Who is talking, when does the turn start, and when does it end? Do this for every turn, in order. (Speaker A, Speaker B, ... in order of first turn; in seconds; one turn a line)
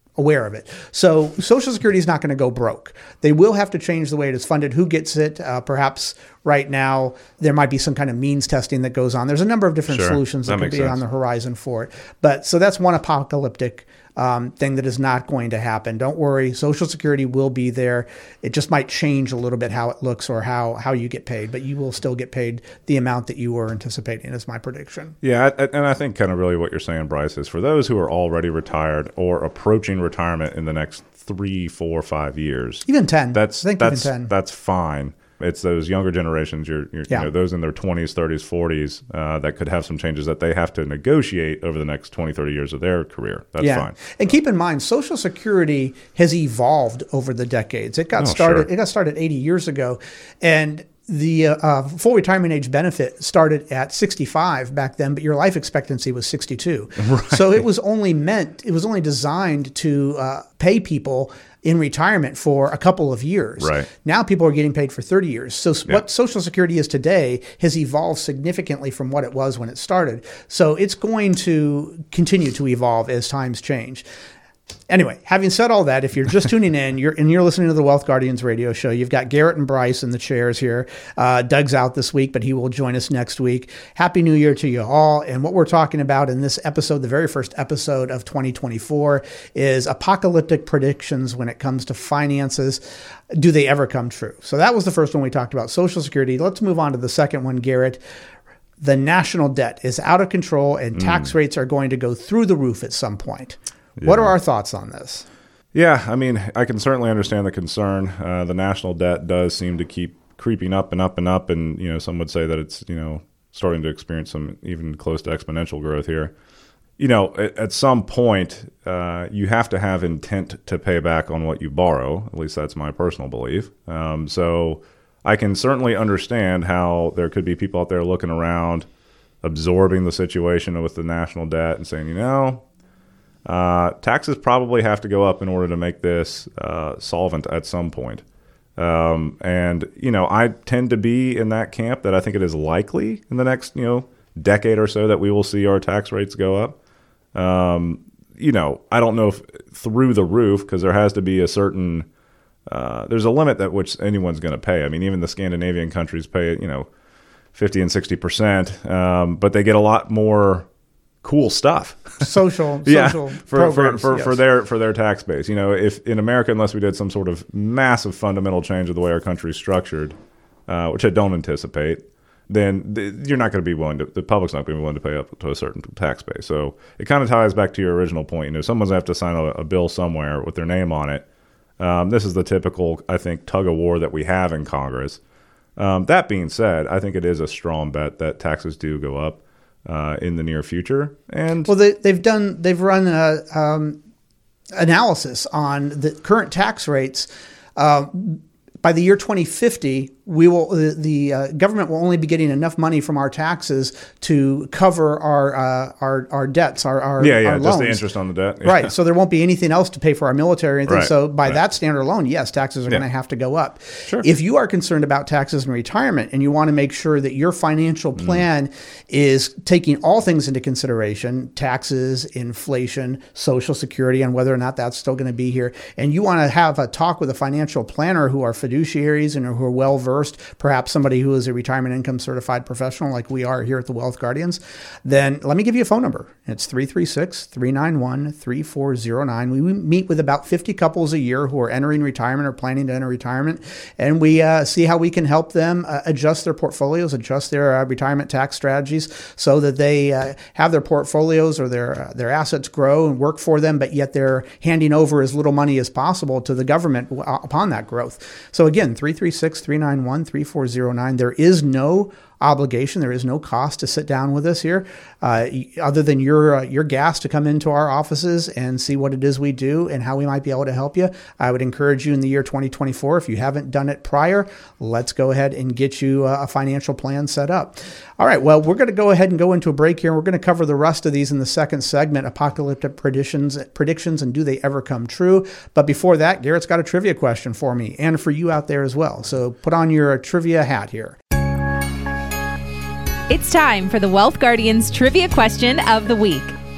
Speaker A: 0.2-25.1
Speaker B: 9.9-11.0
Speaker B: 25.2-44.0
Speaker A: 32.9-34.3
Speaker A: 43.6-74.0
Speaker B: 48.2-48.7
Speaker B: 57.0-57.4
Speaker B: 63.6-63.9
Speaker A: 74.9-98.0
Speaker A: 98.8-105.2
Speaker B: 101.0-101.3
Speaker B: 104.0-104.3
Speaker B: 105.7-116.3
Speaker B: 117.0-128.8
Speaker B: 129.4-132.6
Speaker B: 133.4-138.2
Speaker B: 138.8-146.8
Speaker B: 147.3-152.1
Speaker B: 152.7-156.9
Speaker B: 157.5-160.7
Speaker B: 161.2-162.3
Speaker A: 162.2-164.4
Speaker B: 162.8-170.2
Speaker B: 170.7-181.2
Speaker B: 181.8-185.2
Speaker B: 185.8-191.7
Speaker A: 191.6-194.0
Speaker A: 194.7-208.0
Speaker B: 207.2-208.9
Speaker A: 208.6-291.2
Speaker B: 210.9-211.6
Speaker C: 293.3-296.5